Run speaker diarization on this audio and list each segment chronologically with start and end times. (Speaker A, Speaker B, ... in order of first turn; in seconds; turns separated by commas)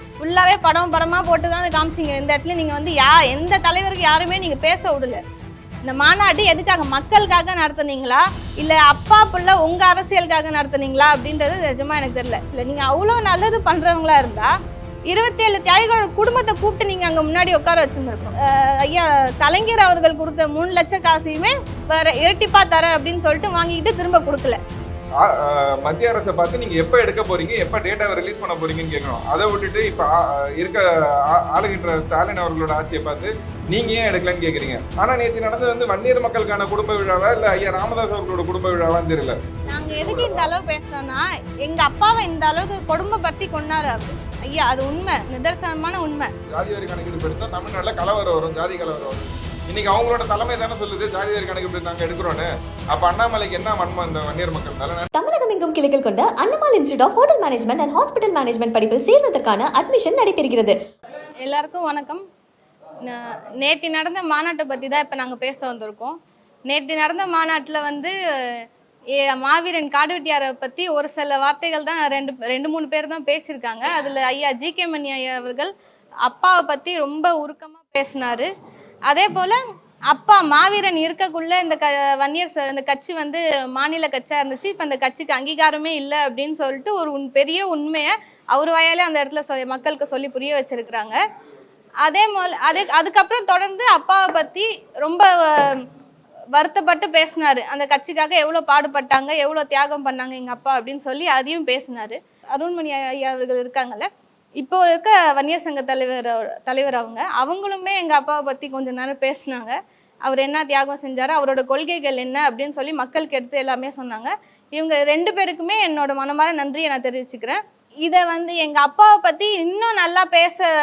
Speaker A: 0.2-5.2, Speaker A: 5.8-14.5, Speaker A: 15.1-24.6, Speaker B: 25.2-40.5, Speaker A: 39.7-46.3, Speaker B: 46.5-55.1, Speaker C: 55.1-60.8, Speaker A: 61.4-62.2, Speaker A: 63.0-66.2, Speaker A: 66.7-68.1, Speaker A: 69.2-75.7, Speaker A: 76.2-78.5, Speaker A: 79.1-79.6, Speaker A: 80.1-91.2, Speaker A: 92.0-95.8, Speaker A: 96.5-104.1, Speaker A: 104.6-109.7, Speaker A: 110.2-120.7